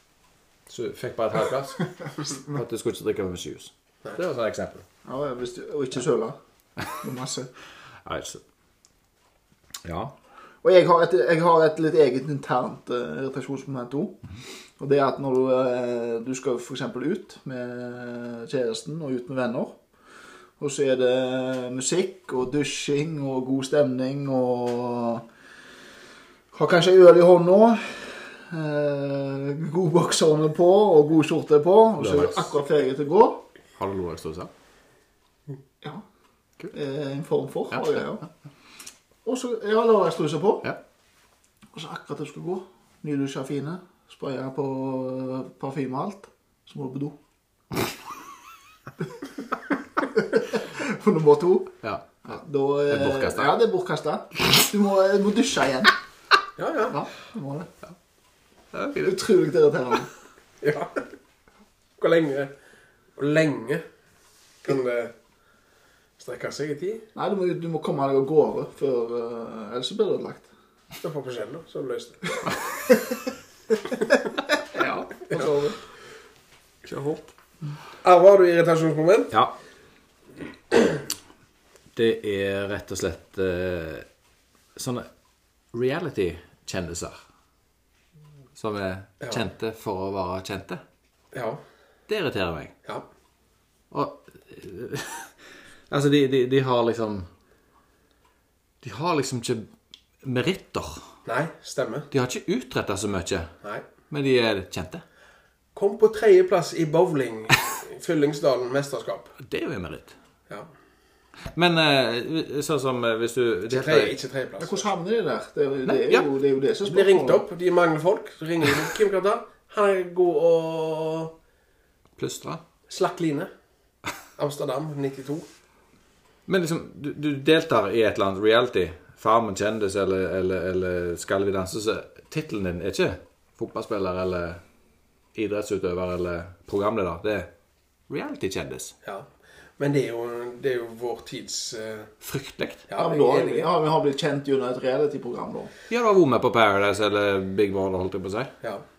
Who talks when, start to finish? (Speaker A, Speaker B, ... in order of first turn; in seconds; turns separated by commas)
Speaker A: 0.7-4.8, Speaker B: 5.0-6.4, Speaker B: 6.9-7.5, Speaker A: 8.1-8.4, Speaker A: 9.8-10.1, Speaker B: 10.6-14.2, Speaker B: 14.8-19.8, Speaker B: 20.6-25.2, Speaker B: 26.5-33.4, Speaker A: 32.0-32.5, Speaker A: 33.8-34.5, Speaker B: 36.7-38.3, Speaker A: 37.7-38.0, Speaker B: 39.2-40.7, Speaker B: 41.7-47.2, Speaker B: 50.1-55.9, Speaker A: 51.8-52.1, Speaker A: 52.9-53.5, Speaker C: 56.6-57.0, Speaker B: 56.9-57.7, Speaker A: 58.7-59.1, Speaker B: 59.0-60.1, Speaker C: 60.6-61.0, Speaker C: 62.0-62.5, Speaker C: 63.2-63.8, Speaker C: 64.6-65.1, Speaker C: 66.2-67.0, Speaker B: 67.2-70.5, Speaker C: 71.0-72.5, Speaker A: 74.8-75.1, Speaker B: 75.2-75.8, Speaker A: 76.9-77.3, Speaker C: 78.0-79.3, Speaker A: 82.0-84.1, Speaker A: 84.8-85.1, Speaker A: 85.7-87.2, Speaker A: 88.6-90.8, Speaker C: 91.3-91.6, Speaker A: 92.1-92.7, Speaker A: 93.9-95.4, Speaker A: 95.9-97.3, Speaker A: 98.8-99.7, Speaker A: 100.2-101.1, Speaker C: 101.3-102.1, Speaker A: 102.1-103.5, Speaker A: 104.1-105.0, Speaker C: 105.8-109.3, Speaker A: 109.4-110.1, Speaker A: 111.5-114.2, Speaker C: 113.7-114.9, Speaker B: 114.6-117.4, Speaker A: 115.9-116.3, Speaker C: 116.8-121.3, Speaker A: 122.2-122.6, Speaker C: 122.9-123.5, Speaker C: 124.4-125.5, Speaker A: 126.5-134.6, Speaker A: 135.3-137.5, Speaker A: 138.1-138.9, Speaker C: 139.0-142.1, Speaker A: 142.2-142.8, Speaker C: 142.9-143.7, Speaker B: 143.0-145.7, Speaker A: 145.9-148.5